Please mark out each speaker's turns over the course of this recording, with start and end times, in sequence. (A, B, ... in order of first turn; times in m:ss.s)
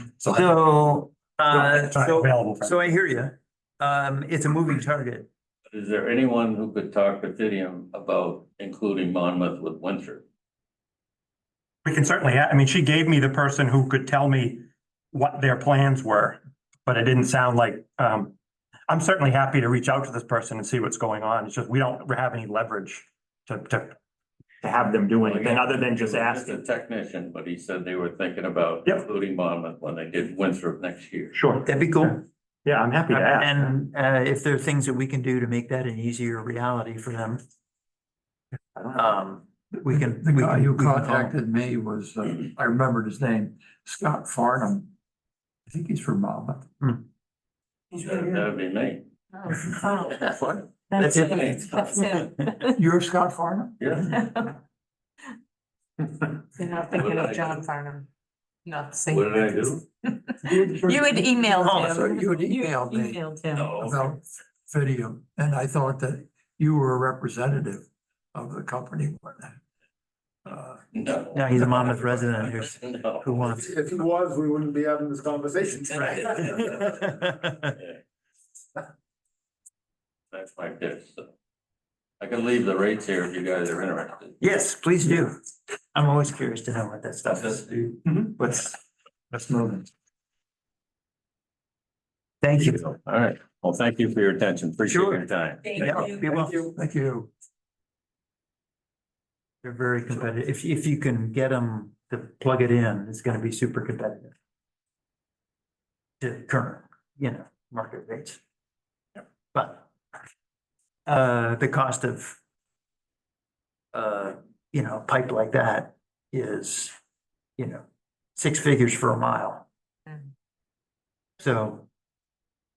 0:00.2-0:00.5 A
0:00.3-0:05.3 B
0:01.5-0:02.7 A
0:05.7-0:10.2 C
0:11.8-0:18.3 A
0:18.9-0:24.0 A
0:24.6-0:26.6 A
0:25.2-0:31.4 C
0:31.3-0:31.7 A
0:31.6-0:32.2 B
0:32.6-0:33.7 A
0:33.1-0:37.4 B
0:38.9-0:41.3 B
0:39.8-0:44.9 D
0:45.7-0:46.7 D
0:47.9-0:49.1 C
0:49.4-0:50.3 E
0:50.1-0:52.2 C
0:50.9-0:52.8 E
0:51.0-0:51.6 D
0:52.8-0:53.8 D
0:53.8-0:54.3 C
0:54.1-0:54.5 E
0:56.5-0:58.1 E
0:56.9-0:57.6 C
0:58.6-1:03.8 E
0:59.1-0:59.8 C
1:00.4-1:03.2 D
1:01.6-1:01.9 B
1:03.5-1:04.1 C
1:03.8-1:09.6 D
1:10.4-1:10.8 D
1:10.9-1:13.4 C
1:11.3-1:13.9 B
1:13.7-1:15.9 F
1:16.0-1:16.9 C
1:16.1-1:17.7 B
1:20.3-1:21.3 C
1:22.2-1:24.4 C
1:24.4-1:25.4 B
1:25.9-1:28.7 B
1:29.3-1:29.9 D
1:32.4-1:32.8 B
1:32.6-1:36.0 C
1:34.9-1:36.7 B
1:35.8-1:37.3 D
1:39.6-1:44.3 B
1:46.2-1:48.4 B
1:49.5-1:49.9 B
1:51.0-1:52.4 B
1:53.9-1:56.9 B
1:57.6-1:57.8 B
1:58.4-1:59.6 B
2:01.4-2:01.9 B